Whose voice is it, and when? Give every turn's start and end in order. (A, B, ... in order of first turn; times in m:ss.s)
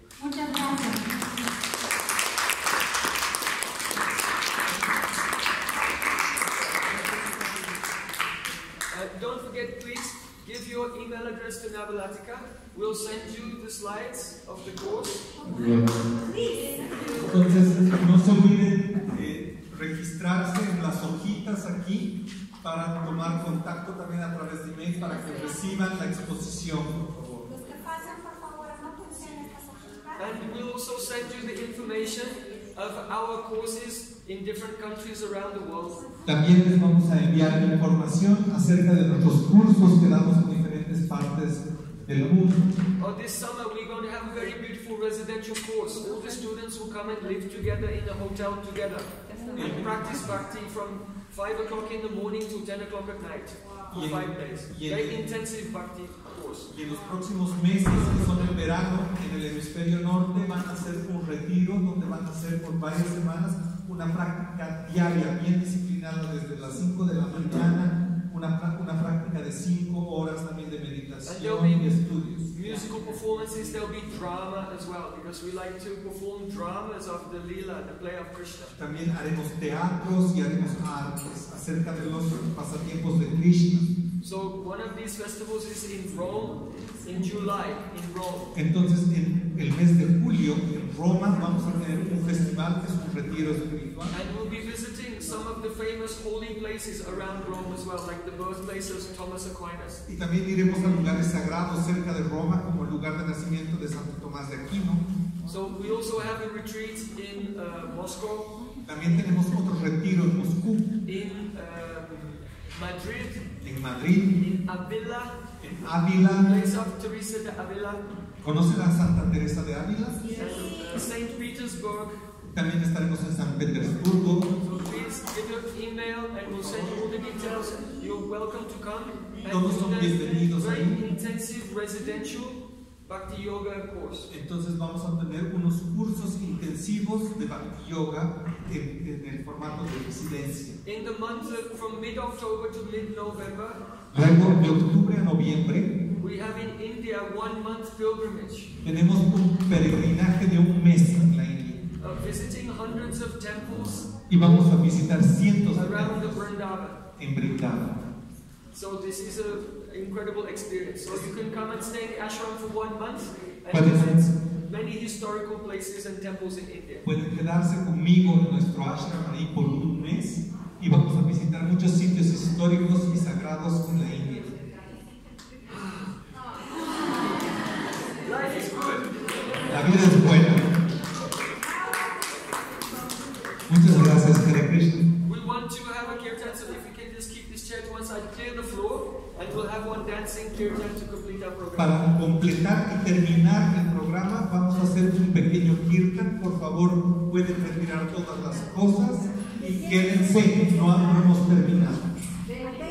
0:00.2-0:01.5 A
0:08.9-0:15.5 B
0:15.5-0:17.5 A
0:17.2-0:27.2 C
0:27.5-0:30.4 A
0:30.2-0:36.0 B
0:36.2-0:42.6 C
0:43.0-0:56.7 B
0:49.5-0:50.3 C
0:53.9-0:55.2 C
0:56.7-1:13.8 C
1:11.2-1:11.9 B
1:12.5-1:18.8 B
1:18.8-1:23.9 C
1:24.2-1:28.5 B
1:28.6-1:34.2 C
1:34.1-1:40.0 B
1:40.1-1:45.0 C
1:45.5-1:48.5 B
1:48.8-1:50.9 C
1:51.1-1:53.5 B
1:53.6-1:54.3 C
1:54.4-1:55.4 B
1:55.6-1:56.6 C
1:56.3-1:58.0 B
1:58.4-2:00.4 C
2:00.3-2:02.2 B
2:02.4-2:04.5 C
2:04.6-2:14.3 B
2:06.4-2:07.3 C
2:09.5-2:11.0 C
2:14.3-2:20.8 C
2:20.8-2:23.8 B
2:24.1-2:25.9 C
2:26.2-2:28.7 B
2:28.8-2:31.8 C
2:32.0-2:34.7 B
2:34.3-2:36.2 C
2:35.7-2:37.0 B
2:37.2-2:38.0 C
2:38.7-2:47.1 B
2:43.7-2:44.3 C
2:47.0-2:54.5 C
2:58.2-2:59.7 B
2:59.7-3:00.7 C
3:03.7-3:05.1 C
3:05.2-3:12.0 B
3:11.8-3:22.1 C